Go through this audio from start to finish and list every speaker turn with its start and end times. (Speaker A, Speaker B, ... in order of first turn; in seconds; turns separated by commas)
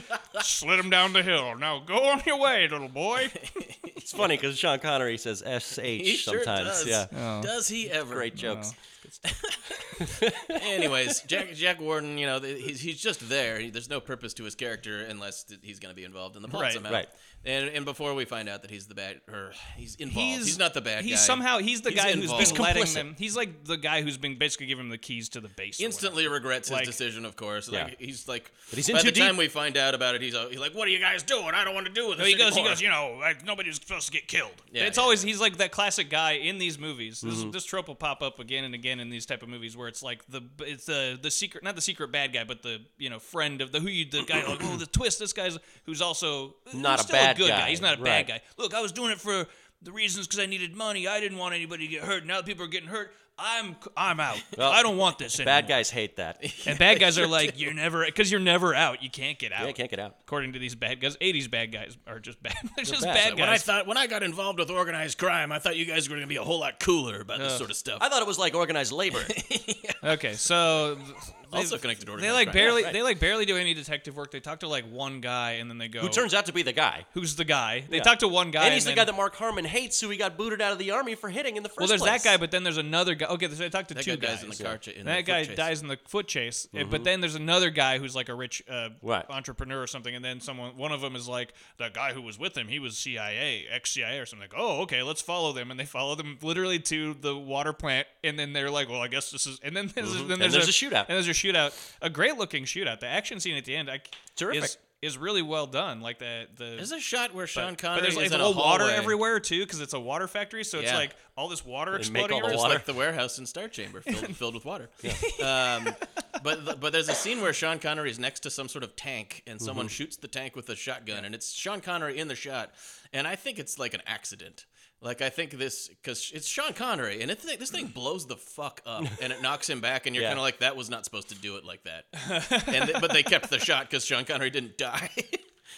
Speaker A: 0.3-3.5, Speaker B: 3.4-4.3, Speaker C: 4.0-7.1, Speaker B: 5.9-8.3, Speaker A: 7.1-7.5, Speaker C: 8.1-8.7, Speaker A: 8.3-9.2, Speaker B: 9.2-22.6, Speaker C: 10.0-10.9, Speaker A: 16.5-16.8, Speaker A: 20.1-27.0, Speaker C: 22.3-23.1, Speaker B: 25.8-32.8, Speaker C: 28.7-29.4, Speaker A: 32.2-55.8, Speaker B: 34.7-35.3, Speaker C: 37.2-37.5, Speaker C: 46.7-48.3, Speaker C: 54.5-56.4, Speaker B: 56.4-57.6, Speaker A: 56.6-63.7, Speaker C: 59.6-60.1, Speaker C: 62.8-63.4, Speaker B: 63.2-68.0, Speaker A: 67.3-67.6, Speaker C: 68.0-69.4, Speaker B: 69.1-70.2, Speaker A: 70.0-76.3, Speaker B: 71.5-72.9, Speaker C: 72.5-73.0, Speaker C: 76.0-77.1, Speaker A: 77.1-79.1, Speaker C: 77.9-82.4, Speaker A: 81.8-106.9, Speaker B: 83.9-85.7, Speaker C: 86.7-87.1, Speaker C: 89.0-89.3, Speaker C: 100.0-101.1, Speaker C: 104.3-104.7, Speaker B: 106.8-109.2, Speaker A: 107.5-112.8, Speaker B: 110.8-111.1, Speaker C: 111.9-112.9, Speaker B: 112.4-135.4, Speaker A: 115.1-116.0, Speaker C: 119.6-119.9, Speaker C: 130.2-130.4, Speaker A: 132.2-133.1